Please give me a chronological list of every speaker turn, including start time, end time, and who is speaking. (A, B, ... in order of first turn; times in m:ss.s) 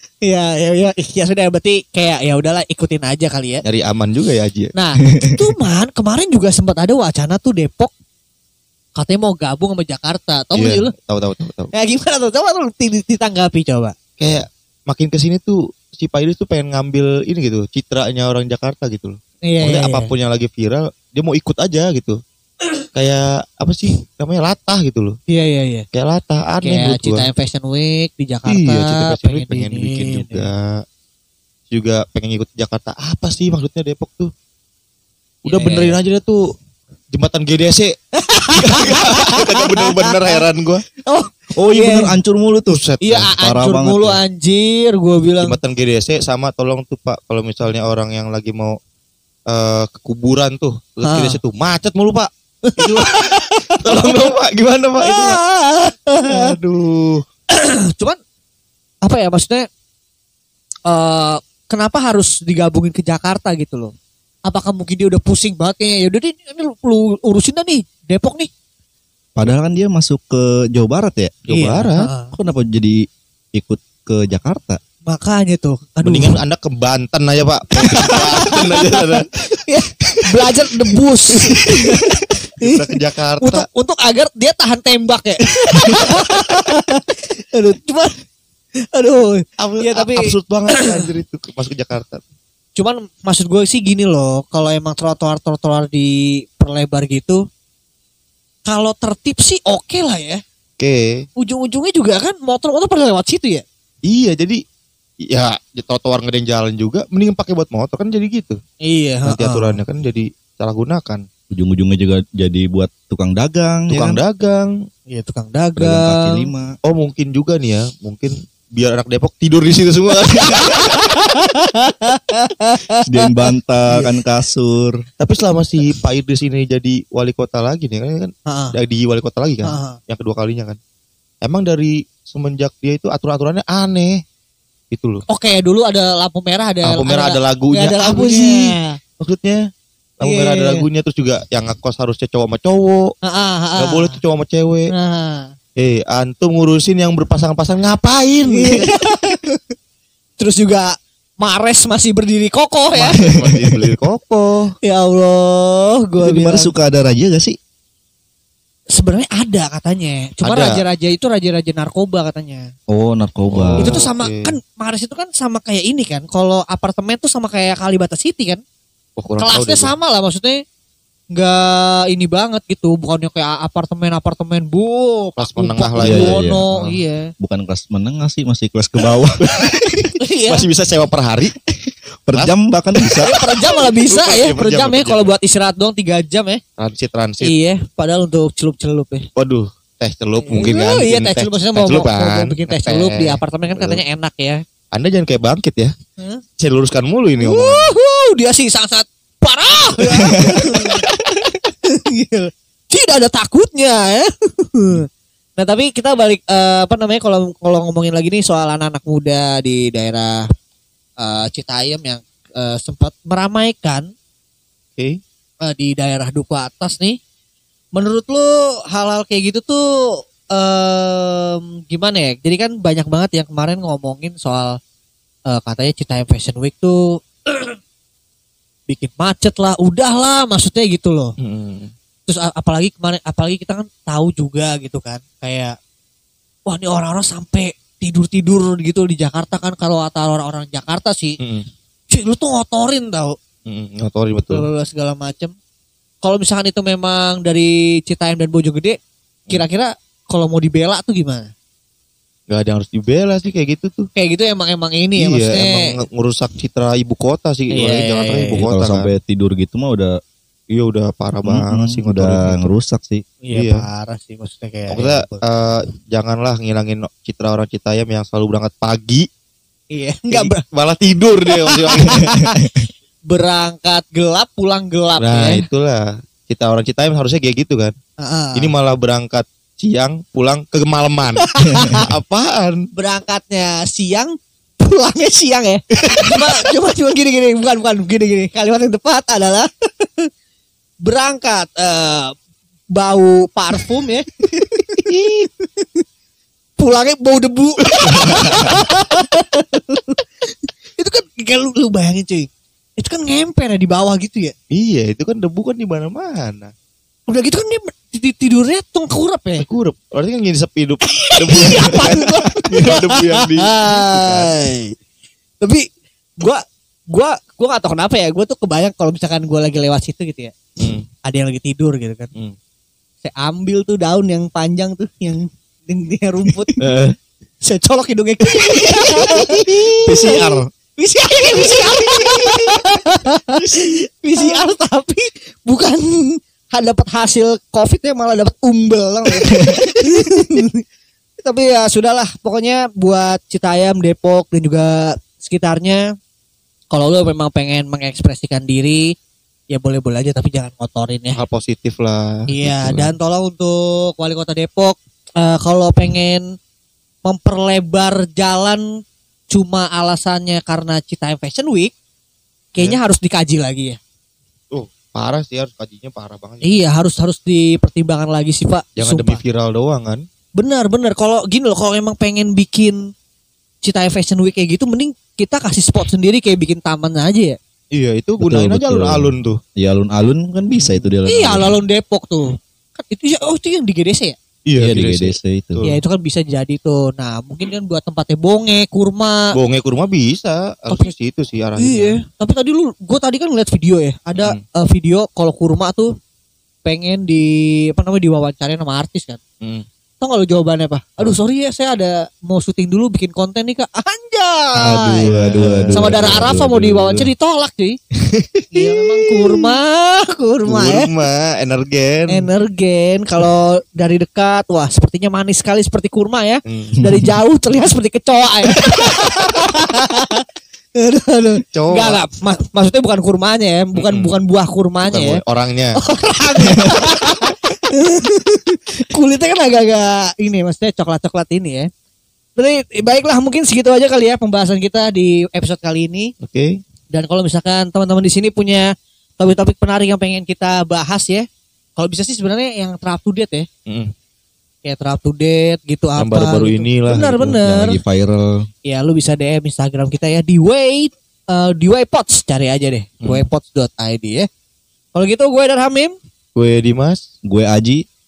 0:00.2-0:03.6 A
0:03.6-0:04.7 B
0:04.7-0:07.9 A
0:05.2-0:05.5 C
0:09.0-0:10.9 A
0:10.5-0:11.7 B
0:11.7-0:14.0 A
0:14.2-0:22.2 B
0:19.5-0:20.1 A
0:22.9-0:25.2 B
0:25.3-0:25.9 A
0:25.9-0:27.3 B
0:26.6-0:30.5 A
0:28.5-0:30.8 B
0:31.7-0:34.3 B
0:35.5-0:36.0 A
0:35.5-0:36.5 B
0:37.1-0:38.0 B
0:38.2-0:40.4 A
0:38.5-0:40.8 B
0:41.1-0:42.2 A
0:41.6-0:44.2 C
0:42.7-0:43.2 B
0:43.0-0:45.6 A
0:45.4-0:48.8 B
0:49.5-0:55.4 B
0:51.0-0:51.4 A
0:52.6-0:54.1 A
0:55.0-0:56.6 A
0:56.3-0:57.2 B
0:57.5-0:58.2 A
0:59.0-0:59.7 A
1:00.9-1:03.9 A
1:04.5-1:08.5 A
1:09.4-1:11.4 C
1:11.5-1:12.1 B
1:11.5-1:12.3 A
1:12.3-1:14.8 C
1:15.1-1:16.4 A
1:16.0-1:19.5 B
1:17.8-1:28.1 A
1:21.6-1:22.0 B
1:22.6-1:23.7 B
1:28.9-1:31.1 A
1:29.6-1:32.2 B
1:32.8-1:37.4 A
1:38.7-1:40.4 A
1:40.8-1:41.3 B
1:41.4-1:43.6 A
1:44.1-1:44.6 B
1:45.3-1:48.6 B
1:48.8-1:49.8 A
1:49.3-1:51.2 B
1:51.5-1:54.2 C
1:53.9-1:54.8 B
1:55.1-1:56.5 A
1:55.8-1:56.7 C
1:56.8-2:01.0 B
2:00.6-2:03.1 A
2:03.1-2:05.0 C
2:05.2-2:10.8 B
2:08.5-2:08.8 A
2:09.6-2:10.0 A
2:11.4-2:14.2 B
2:14.9-2:15.2 B
2:15.3-2:19.0 A
2:16.8-2:19.6 B
2:20.2-2:23.1 B
2:20.2-2:20.8 A
2:23.2-2:24.2 A
2:23.8-2:24.9 B
2:24.9-2:25.5 A
2:25.8-2:29.0 B
2:28.5-2:29.6 A
2:30.4-2:33.3 A
2:33.0-2:34.7 B
2:33.2-2:33.8 C
2:34.8-2:36.7 A
2:36.2-2:37.6 C
2:38.9-2:42.7 A
2:40.4-2:40.8 B
2:42.9-2:44.0 C
2:43.5-2:44.5 B
2:43.8-2:48.6 A
2:49.2-2:49.9 B
2:49.4-2:50.6 A
2:51.3-2:57.3 A
2:55.4-2:57.0 B
2:56.0-2:56.6 C
2:57.4-2:59.4 C
2:59.4-3:01.6 B
3:00.2-3:00.7 A
3:02.3-3:03.4 C
3:03.2-3:06.6 A
3:04.0-3:05.3 B
3:06.8-3:07.6 B
3:07.4-3:09.3 A
3:09.4-3:14.0 B
3:10.4-3:14.6 A
3:14.9-3:15.9 B
3:16.6-3:17.9 B
3:17.4-3:21.1 A
3:20.1-3:20.4 B
3:20.4-3:20.7 C
3:21.7-3:30.5 A
3:31.2-3:34.1 A
3:35.6-3:37.2 A
3:38.0-3:39.8 A
3:40.5-3:44.8 A
3:45.5-3:47.8 A
3:48.9-3:51.3 A
3:51.4-3:51.9 B
3:52.3-3:55.8 A
3:56.7-4:01.4 A
4:01.4-4:01.7 B
4:02.1-4:03.4 A
4:03.7-4:04.7 B
4:04.5-4:05.5 A
4:06.2-4:09.0 A
4:09.5-4:11.5 A
4:12.5-4:14.1 B
4:14.2-4:16.0 A
4:15.2-4:19.1 B
4:17.7-4:18.6 A
4:18.5-4:20.2 C
4:20.7-4:22.6 B
4:21.4-4:23.3 C
4:23.4-4:25.4 A
4:23.5-4:23.9 B
4:24.9-4:29.3 B
4:29.9-4:30.6 A
4:30.3-4:32.4 B
4:31.7-4:32.6 A
4:32.1-4:32.9 C
4:33.3-4:35.6 A
4:35.2-4:38.0 B
4:38.2-4:38.7 A
4:38.6-4:42.9 B
4:41.4-4:42.1 A
4:43.0-4:50.3 A
4:46.0-4:46.5 B
4:51.0-4:52.3 A
4:52.9-4:56.0 A
4:55.0-4:55.5 B
4:56.8-5:04.5 A
4:58.1-4:58.5 B
5:04.7-5:06.7 B
5:07.3-5:09.6 A
5:09.6-5:14.5 B
5:11.1-5:15.0 A
5:15.6-5:15.9 A
5:16.4-5:20.6 A
5:20.8-5:21.1 B
5:21.2-5:22.3 A
5:23.2-5:26.8 A
5:26.8-5:27.2 B
5:27.6-5:40.8 A
5:28.6-5:30.6 B
5:30.1-5:30.5 C
5:31.7-5:32.8 B
5:41.4-5:46.0 A
5:46.9-5:49.1 A
5:49.7-5:51.4 A
5:51.4-5:53.1 B
5:52.5-5:56.4 A
5:57.2-5:58.8 A
5:59.5-6:01.9 A
6:02.7-6:04.0 A
6:04.7-6:06.8 B
6:06.6-6:09.4 A
6:09.0-6:10.2 B
6:10.6-6:13.0 A
6:13.8-6:17.6 A
6:17.9-6:19.6 B
6:18.4-6:21.8 C
6:20.8-6:21.1 B
6:21.3-6:24.4 A
6:24.7-6:26.0 B
6:24.8-6:25.8 C
6:25.8-6:29.6 A
6:29.5-6:32.2 B
6:31.8-6:36.1 A
6:36.8-6:39.4 A
6:40.2-6:45.3 A
6:44.8-6:47.3 C
6:45.2-6:46.5 B
6:45.9-6:48.0 A
6:48.2-6:49.8 B
6:48.7-6:51.1 A
6:50.7-6:52.5 B
6:52.3-7:00.4 A
6:56.7-6:57.0 B
6:58.8-6:59.4 B
7:01.0-7:05.4 A
7:01.7-7:02.2 B
7:03.9-7:04.3 B
7:05.1-7:06.0 B
7:06.0-7:11.9 A
7:12.6-7:16.3 A
7:16.4-7:16.8 B
7:17.1-7:21.5 A
7:22.0-7:23.7 A
7:23.9-7:24.1 B
7:24.8-7:28.0 A
7:26.2-7:27.6 B
7:27.6-7:28.7 C
7:28.8-7:34.5 A
7:35.1-7:36.2 A
7:36.6-7:37.2 B
7:37.4-7:38.0 C